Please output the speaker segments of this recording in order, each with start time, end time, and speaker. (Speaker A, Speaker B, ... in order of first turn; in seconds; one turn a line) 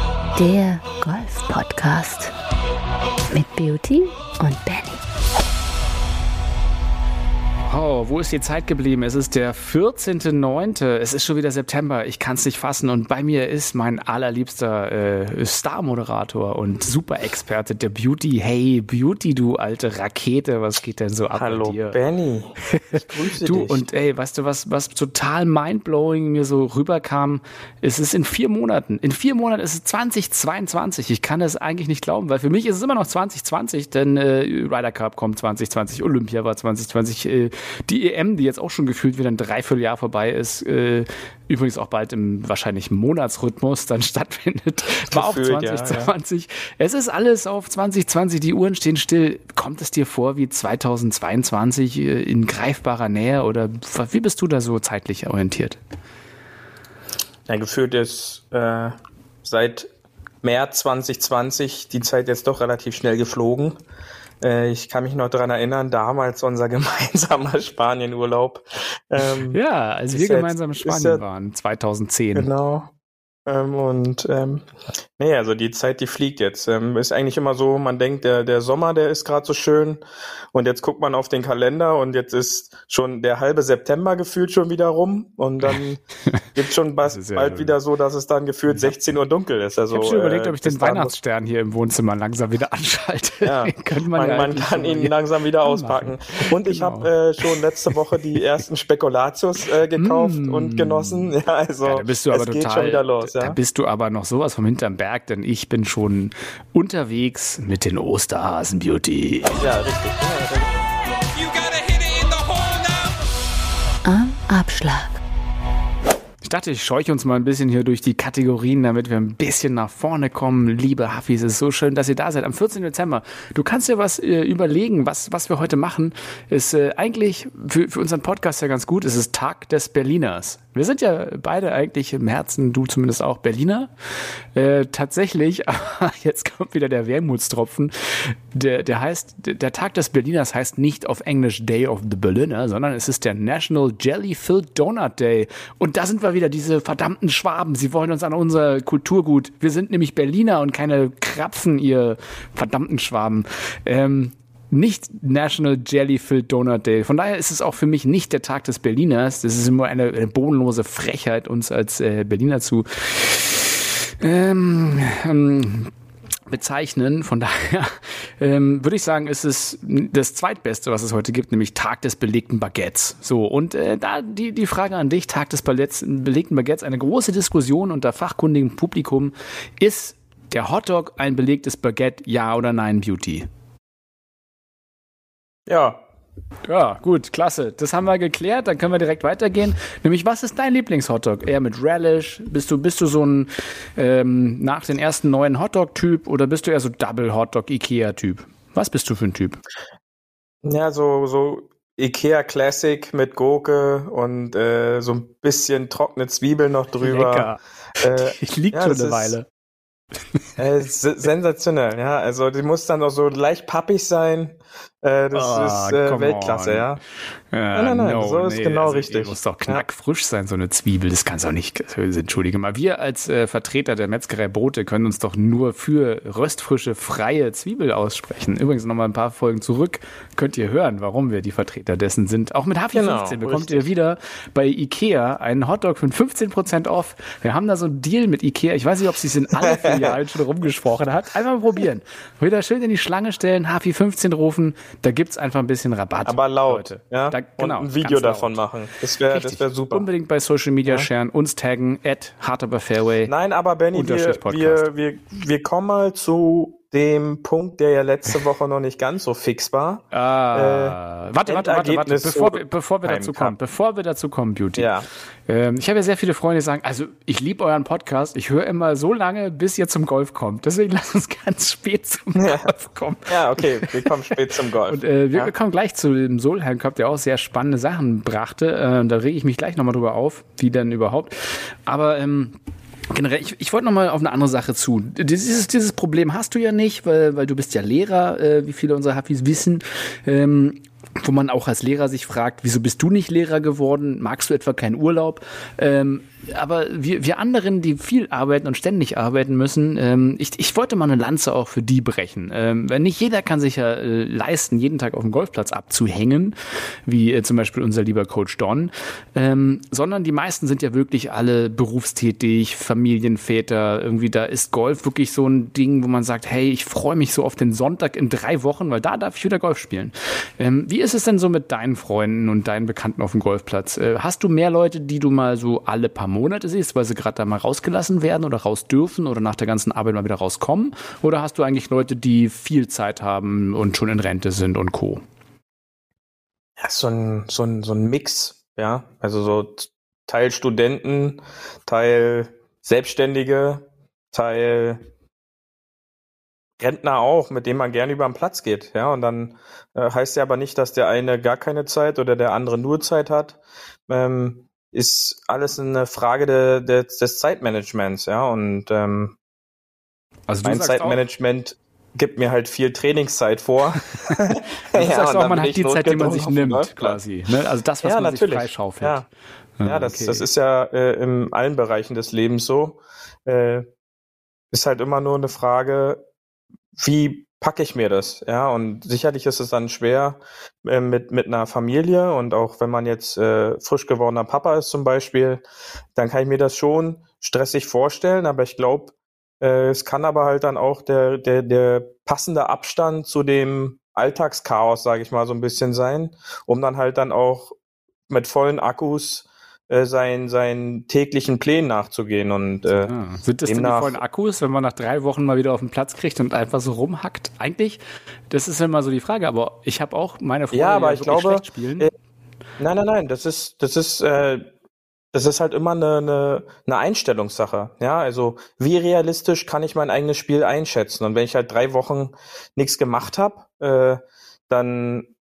Speaker A: 0.3-2.3
Speaker A: 3.3-5.0
Speaker B: 7.7-22.0
Speaker C: 21.3-23.9
Speaker B: 22.7-55.8
Speaker C: 45.1-46.1
Speaker C: 57.5-59.9
Speaker C: 60.4-63.8
Speaker C: 64.4-69.6
Speaker B: 69.2-72.5
Speaker C: 70.1-71.2
Speaker C: 72.3-72.9
Speaker C: 73.5-74.7
Speaker C: 75.2-80.0
Speaker C: 80.5-86.0
Speaker B: 85.7-86.5
Speaker C: 86.5-91.2
Speaker B: 87.0-87.8
Speaker B: 88.7-88.9
Speaker B: 89.9-97.9
Speaker C: 93.4-103.6
Speaker B: 100.0-109.7
Speaker C: 109.6-110.7
Speaker D: 111.2-113.7
Speaker A: 114.0-115.2
Speaker B: 116.4-133.9
Speaker B: 134.5-165.9
Speaker B: 166.5-183.4
Speaker C: 185.7-186.0
Speaker B: 186.7-199.6
Speaker C: 200.6-209.4
Speaker B: 207.0-209.4
Speaker C: 210.6-217.0
Speaker B: 215.3-216.9
Speaker B: 217.5-248.6
Speaker C: 217.7-219.8
Speaker C: 232.9-233.9
Speaker C: 239.6-240.2
Speaker C: 246.2-250.1
Speaker B: 249.3-253.3
Speaker C: 253.2-263.6
Speaker B: 253.9-254.9
Speaker B: 260.1-264.9
Speaker C: 264.8-265.1
Speaker B: 265.5-274.1
Speaker C: 272.4-272.7
Speaker C: 273.3-275.5
Speaker B: 274.9-282.5
Speaker B: 283.1-335.2
Speaker C: 336.8-345.0
Speaker C: 346.8-359.3
Speaker B: 360.5-361.2
Speaker C: 360.6-367.2
Speaker B: 364.9-369.3
Speaker C: 368.0-369.2
Speaker B: 369.8-370.5
Speaker C: 369.8-373.9
Speaker C: 374.7-376.2
Speaker C: 376.9-385.6
Speaker C: 386.1-397.7
Speaker C: 398.3-403.1
Speaker B: 402.9-412.1
Speaker C: 403.7-404.2
Speaker C: 410.7-412.1
Speaker C: 412.8-414.6
Speaker C: 415.3-425.3